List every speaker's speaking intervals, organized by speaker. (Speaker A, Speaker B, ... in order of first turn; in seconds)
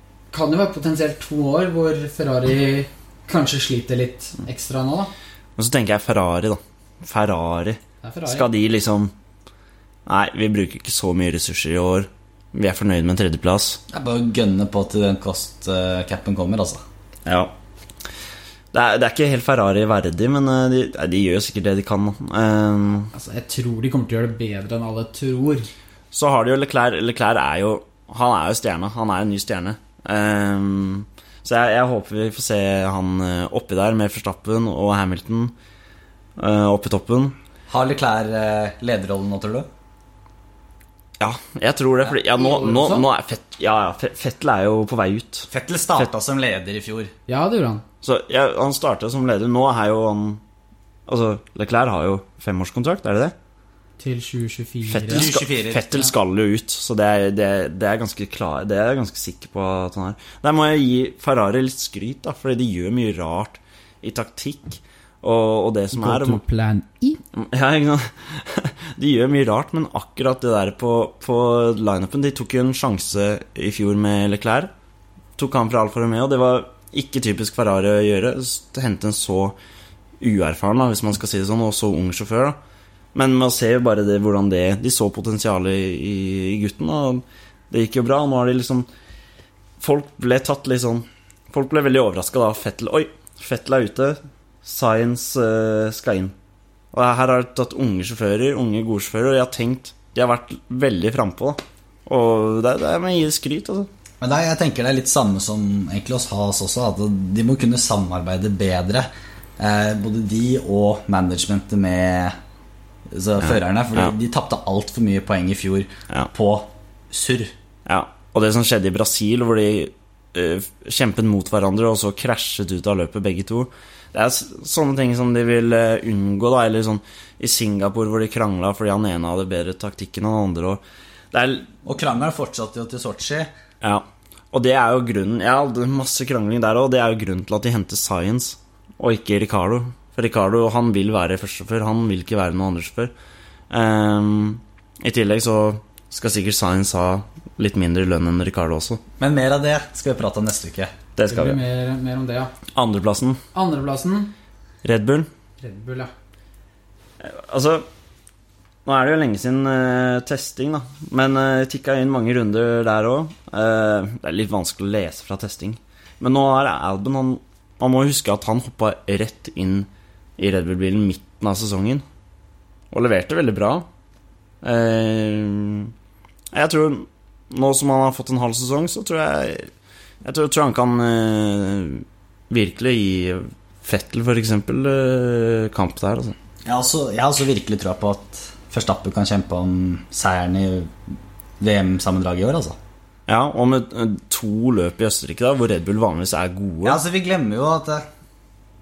Speaker A: 0.3-5.1, 8.0-8.5, 23.1-25.7, 42.2-43.1, 47.3-47.8, 54.0-55.3, 65.9-67.2, 151.3-152.5, 153.5-154.3, 155.6-156.1
Speaker B: 5.6-9.1, 10.1-13.8, 17.3-17.5, 18.7-23.1, 26.1-35.5, 36.4-37.4, 41.2-46.1, 48.0-50.4, 51.1-53.3, 54.9-66.4, 67.3-74.7, 75.4-79.6, 80.2-82.6, 83.2-88.9, 89.8-96.3, 96.9-103.9, 113.4-114.1, 117.9-131.7, 133.8-143.1, 143.7-149.0, 151.2-151.6, 152.8-153.4, 154.8-155.3, 157.2-157.8, 158.9-172.0, 172.9-173.9, 174.6-175.9, 176.5-179.7, 180.2-186.3, 193.3-197.0
Speaker C: 13.9-16.8, 37.7-39.7, 45.5-47.1, 55.1-56.1, 104.2-109.1, 109.6-112.4, 113.1-117.5, 131.8-133.5, 149.2-150.9, 186.7-191.0, 191.6-192.8, 196.8-198.0